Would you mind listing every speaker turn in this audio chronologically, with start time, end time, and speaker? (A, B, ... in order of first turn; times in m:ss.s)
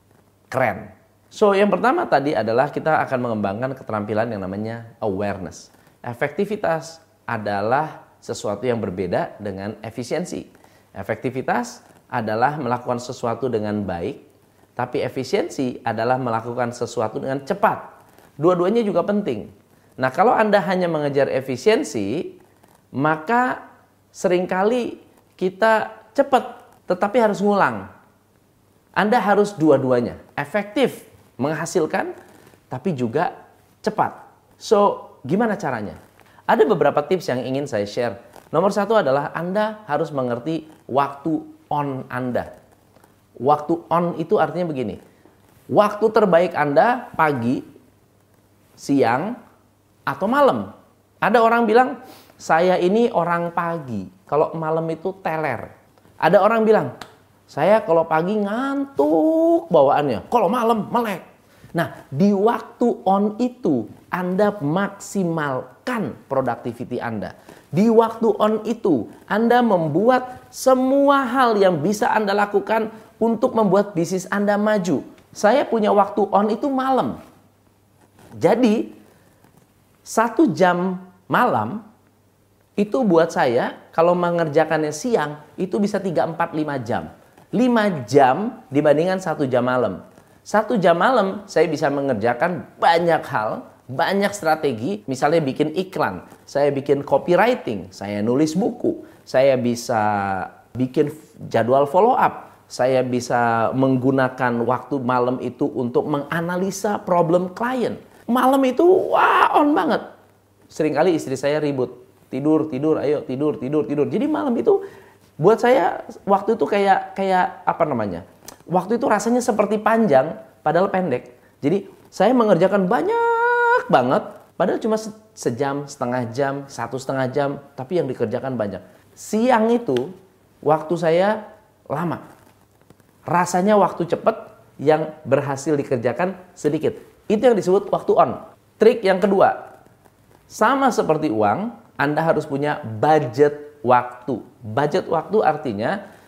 0:00.5-0:14.2 A
0:14.8-0:17.9 A
0:18.4-0:22.4 A
0:23.0-0:23.6 A
0:24.1-0:27.9 A
0:29.0-0:32.1 A
0:32.7-0:42.5 A
0:43.4-0:45.0 A
0:45.7-0:47.6 A
0:48.8-0:49.4 A
0:50.1-0:50.7 A
0:51.2-0:55.7 A
0:56.2-0:56.9 A
0:57.5-1:17.2 A
1:18.4-1:19.0 A
1:20.0-1:21.8 A
1:22.8-1:50.0 A
1:50.7-1:54.8 A
1:55.4-2:12.2 A
2:13.3-2:19.6 A
2:20.5-2:26.0 A